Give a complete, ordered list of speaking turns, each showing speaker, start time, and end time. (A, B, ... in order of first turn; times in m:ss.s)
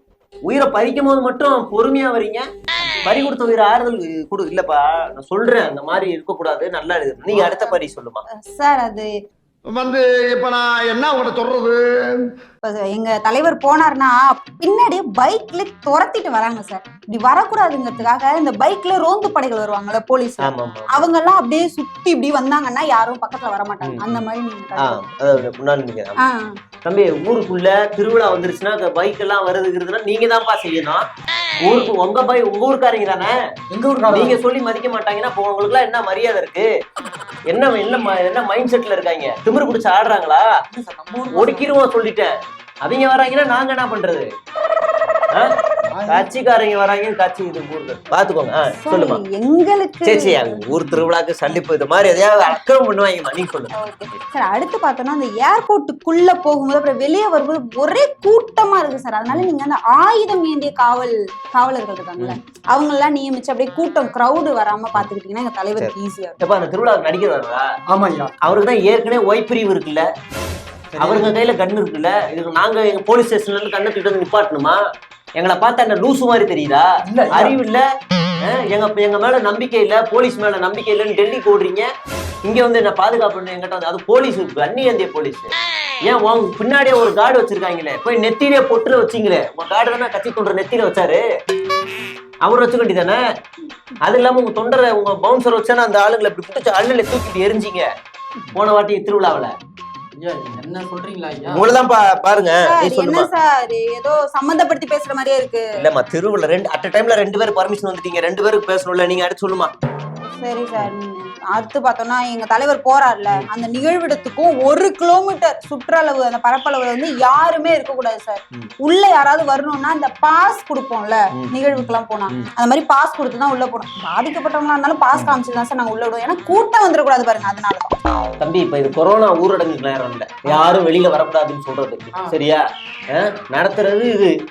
0:00.4-0:02.4 A
0:03.0-0:08.2 A
0:07.3-0:07.7 B
0:08.5-0:09.1 B
0:09.7-0:12.3 C
0:12.6-0:25.1 B
0:20.4-0:21.1 A
0:23.8-0:24.2 A
0:24.8-0:26.2 A
0:26.2-0:26.5 B
0:26.8-0:31.0 A
0:31.6-0:33.3 A
0:33.7-0:34.4 D
0:34.1-0:36.7 A
0:37.5-0:40.4 A
0:40.7-0:41.7 D
0:41.3-0:42.3 A
0:42.8-0:44.3 A
0:45.9-0:46.4 D
0:46.1-0:49.2 A
0:48.8-0:51.0 B
0:50.0-0:53.7 A
0:53.7-1:06.4 B
1:05.8-1:07.7 A
1:07.9-1:08.3 D
1:08.4-1:10.0 A
1:10.9-1:11.4 D
1:11.0-1:14.8 A
1:15.4-1:17.8 A
1:17.0-1:17.6 D
1:18.4-1:21.9 A
1:22.4-1:25.5 A
1:26.0-1:31.2 A
1:32.4-1:33.2 A
1:34.0-1:37.9 A
1:38.5-1:39.5 A
1:40.1-1:41.7 D
1:41.5-1:43.3 A
1:42.6-1:45.7 B
1:45.8-1:49.7 A
1:50.2-2:08.0 B
2:01.4-2:02.5 A
2:08.4-2:12.6 A
2:13.1-2:14.3 A